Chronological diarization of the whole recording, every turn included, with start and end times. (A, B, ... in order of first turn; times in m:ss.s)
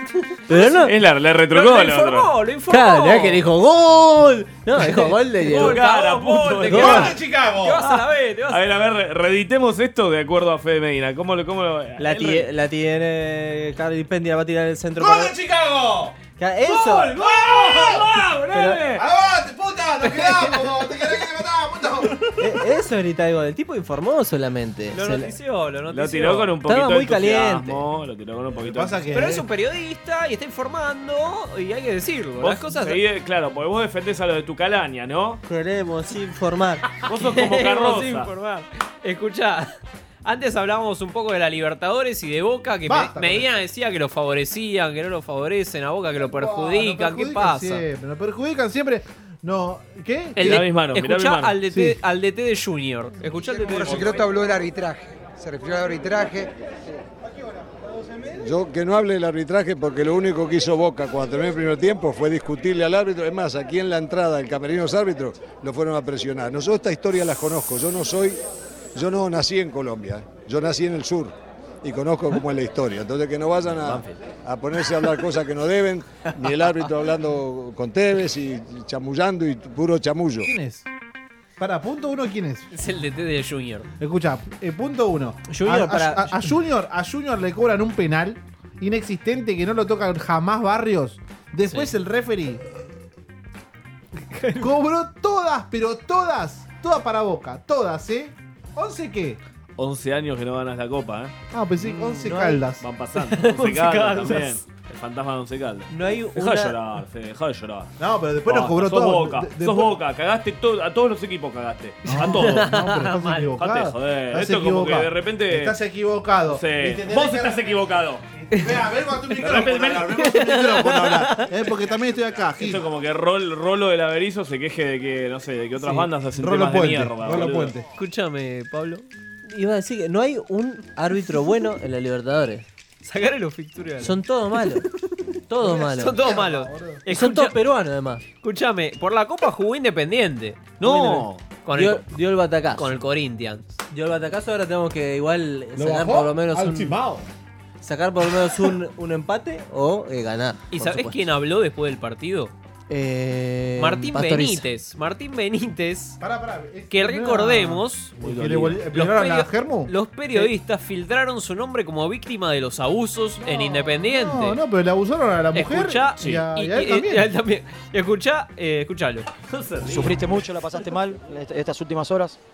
0:00.5-0:00.9 A
0:00.6-0:02.3 B
0:01.5-0:03.4 C
0:02.7-0:05.8 A
0:05.4-0:07.2 B
0:05.5-0:08.7 C
0:06.7-0:07.1 A
0:06.8-0:07.8 D
0:07.8-0:12.5 B
0:12.0-0:15.3 A
0:15.0-0:16.2 D
0:16.4-0:17.1 A
0:16.7-0:18.2 D
0:17.3-0:19.0 B
0:18.5-0:18.8 A
0:18.9-0:22.6 D
0:20.0-0:20.7 C
0:22.4-0:25.3 A
0:24.9-0:26.5 C
0:25.9-0:29.3 B
0:26.7-0:27.8 A
0:28.6-0:29.5 D
0:29.1-0:33.0 C
0:32.4-0:35.4 B
0:35.5-0:36.8 A
0:37.1-0:38.3 B
0:37.1-0:39.7 C
0:40.2-0:47.8 C
0:42.9-0:43.5 D
0:46.2-0:50.6 D
0:50.4-0:54.2 C
0:50.4-0:51.6 B
0:51.7-0:52.0 D
0:53.7-0:56.5 E
0:58.4-1:08.4 F
1:09.0-1:20.5 F
1:13.7-1:14.2 B
1:20.4-1:20.9 D
1:21.6-1:22.7 D
1:22.7-1:23.9 C
1:24.0-1:32.6 D
1:25.5-1:26.5 A
1:31.7-1:32.0 C
1:34.2-1:34.7 C
1:34.6-1:39.4 D
1:39.8-1:47.9 B
1:41.5-1:42.8 D
1:42.3-1:42.6 A
1:43.2-1:44.6 C
1:45.9-1:46.8 A
1:48.0-1:50.0 D
1:48.5-1:52.6 B
1:52.1-1:57.8 D
1:52.1-1:53.5 C
1:53.6-1:55.8 B
1:56.5-1:58.2 B
1:58.3-2:02.8 D
1:59.4-2:00.3 B
1:59.5-2:01.5 C
2:02.6-2:07.8 B
2:06.4-2:07.8 D
2:08.0-2:09.1 C
2:09.5-2:12.7 A
2:13.0-2:14.2 C
2:14.0-2:14.8 A
2:15.5-2:16.2 A
2:15.7-2:17.6 C
2:15.9-2:17.0 D
2:17.1-2:18.2 A
2:18.4-2:20.7 C
2:20.8-2:21.4 B
2:20.8-2:22.9 A
2:21.6-2:22.0 C
2:22.8-2:23.7 C
2:23.9-2:27.0 A
2:25.8-2:27.3 D
2:27.8-2:31.2 A
2:30.7-2:32.5 C
2:32.9-2:34.7 A
2:33.8-2:36.2 C
2:36.2-2:40.4 D
2:36.9-2:38.1 C
2:38.2-2:38.8 B
2:38.9-2:44.6 C
2:43.4-2:47.3 D
2:45.5-2:49.3 C
2:49.5-2:50.9 B
2:49.9-2:52.4 G